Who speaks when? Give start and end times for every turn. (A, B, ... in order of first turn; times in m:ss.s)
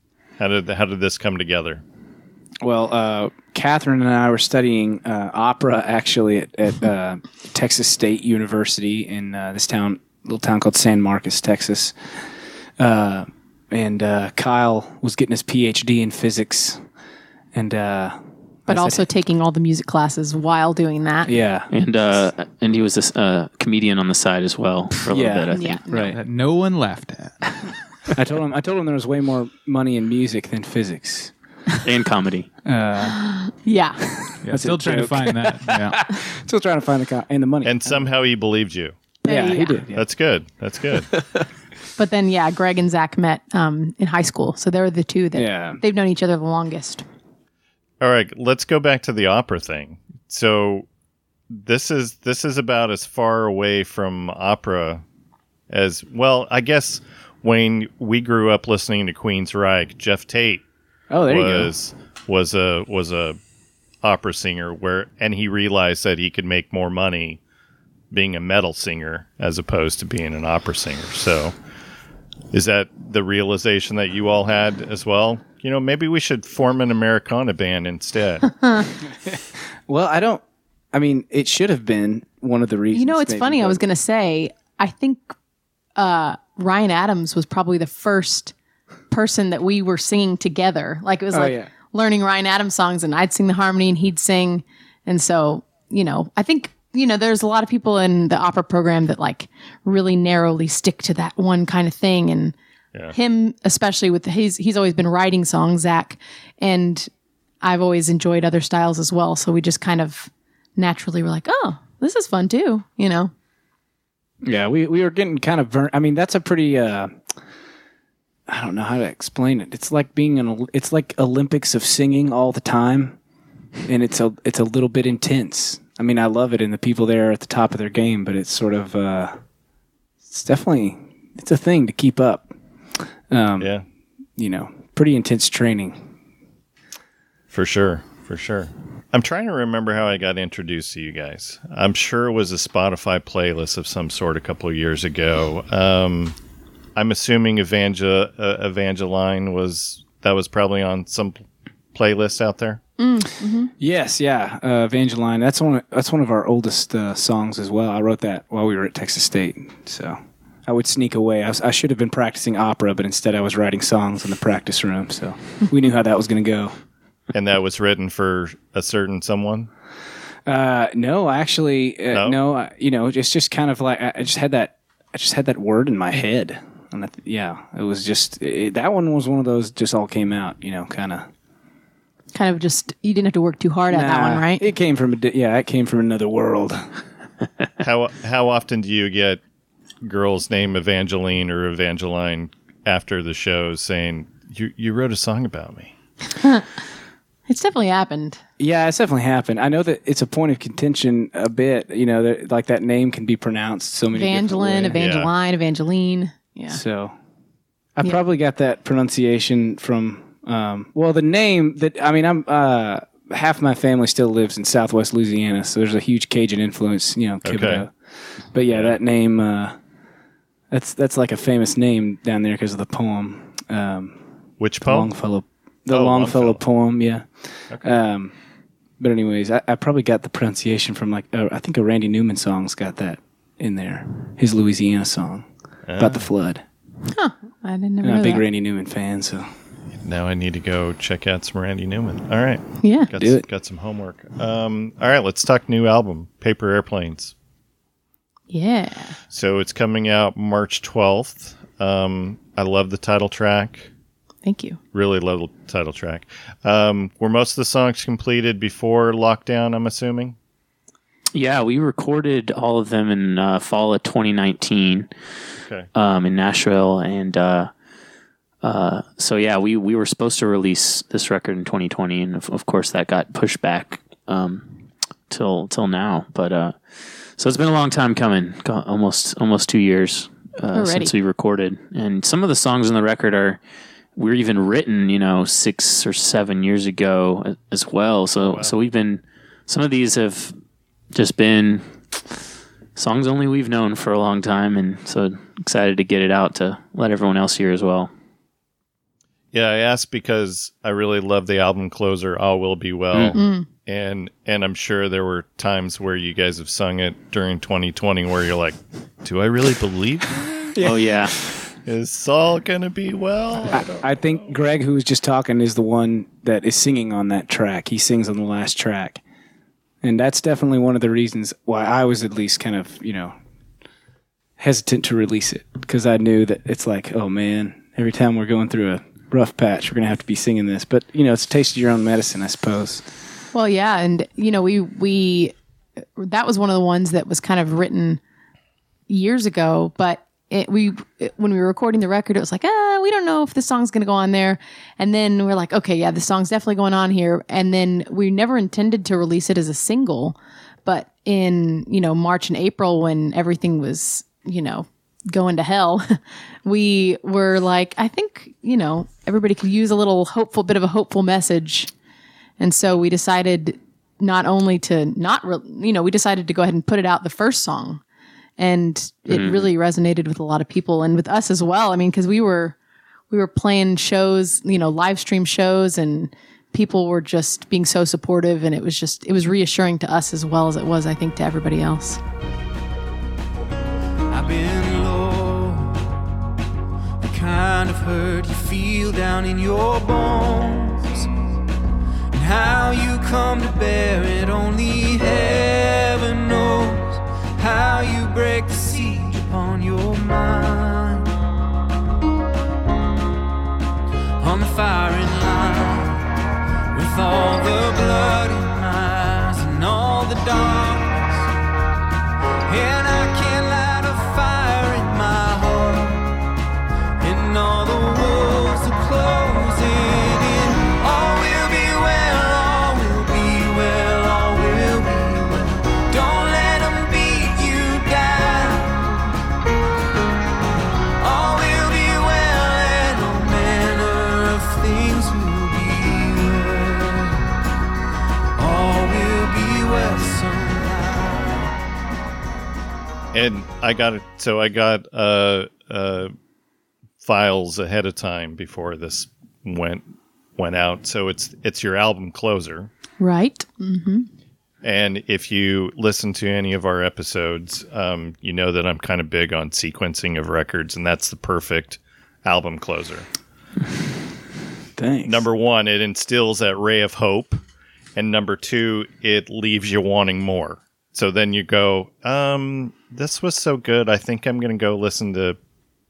0:00.4-0:01.8 A
0:02.6-0:16.8 B
0:17.5-0:19.0 B
0:18.7-0:21.3 C
0:21.2-0:21.7 B
0:21.7-0:25.8 D
0:25.1-0:26.2 B
0:25.5-0:26.2 C
0:26.1-0:27.6 E
0:28.1-0:31.3 B
0:31.8-0:32.5 D
0:32.6-0:33.2 B
0:33.0-0:34.0 C
0:34.4-0:36.0 E
0:34.5-0:38.1 B
0:37.6-0:39.0 A
0:39.2-0:39.8 C
0:39.2-0:40.0 B
0:39.9-0:41.1 A
0:42.0-0:47.0 C
0:45.3-0:45.8 B
0:48.0-0:50.9 A
0:51.5-0:55.0 A
0:55.7-1:00.6 A
1:01.1-1:01.7 B
1:01.3-1:03.4 A
1:04.0-1:07.4 A
1:08.1-1:11.5 A
1:12.5-1:18.5 A
1:19.3-1:23.8 B
1:22.9-1:25.3 C
1:26.0-1:28.5 C
1:29.1-1:42.6 C
1:31.3-1:31.7 B
1:43.1-1:47.1 C
1:47.6-1:53.3 C
1:54.4-1:57.2 B
1:58.5-2:03.2 B
2:03.8-2:09.4 B
2:10.3-2:13.7 B
2:14.4-2:16.1 B
2:17.5-2:26.4 A
2:27.0-2:32.8 A
2:33.0-2:33.7 C
2:33.8-2:46.7 B
2:47.3-2:49.7 A
2:50.4-3:01.3 B
2:52.1-2:52.4 A
3:02.3-3:04.6 C
3:03.9-3:06.9 B
3:07.8-3:09.4 A
3:10.0-3:15.9 A
3:16.4-3:16.6 C
3:17.5-3:18.4 C
3:18.6-3:25.0 B
3:24.1-3:26.8 C
3:24.9-3:25.3 A
3:26.7-3:27.1 B
3:28.0-3:37.9 B
3:37.4-3:37.8 A
3:38.5-3:39.8 B
3:38.7-3:39.0 A
3:40.7-3:44.3 B
3:44.6-3:45.1 A
3:44.8-3:48.3 B
3:45.9-3:46.6 A
3:47.7-3:48.0 A
3:49.0-3:55.5 B
3:55.9-3:56.3 A
3:56.0-3:56.6 B
3:57.1-3:58.4 C
3:58.0-3:59.5 B
4:00.0-4:07.3 A
4:02.8-4:03.1 C
4:03.2-4:03.4 B
4:08.5-4:09.2 C
4:09.3-4:13.9 A
4:14.4-4:14.8 C
4:14.9-4:20.4 A
4:21.3-4:25.1 D
4:25.6-4:25.9 A
4:25.9-4:27.7 D
4:28.6-4:43.6 D
4:40.7-4:41.1 C
4:44.2-4:50.6 D
4:48.4-4:48.7 A
4:51.1-4:51.9 D
4:53.0-4:58.1 D
4:59.5-5:11.1 A
5:03.3-5:03.6 C
5:10.7-5:11.1 B
5:10.8-5:11.4 D
5:11.7-5:14.0 A
5:13.6-5:19.2 B
5:20.0-5:23.3 B
5:24.6-5:33.0 B
5:33.5-5:35.5 C
5:36.2-5:38.2 C
5:39.1-6:01.9 C
6:02.6-6:08.0 C
6:08.6-6:12.8 C
6:09.3-6:09.7 D
6:13.3-6:22.2 C
6:24.3-6:26.2 F
6:27.2-6:31.3 F
6:32.3-6:41.3 F
6:44.4-6:46.3 F
6:46.9-6:51.5 F
6:52.7-6:56.4 F
6:57.2-7:09.1 F
7:11.2-7:17.5 F
7:18.6-7:21.7 F
7:23.3-7:26.3 A
7:27.2-7:30.0 A
7:30.6-7:32.9 A
7:33.2-7:34.3 C
7:34.8-7:43.3 A
7:45.0-7:45.4 B
7:45.2-7:47.6 A
7:48.2-7:55.6 A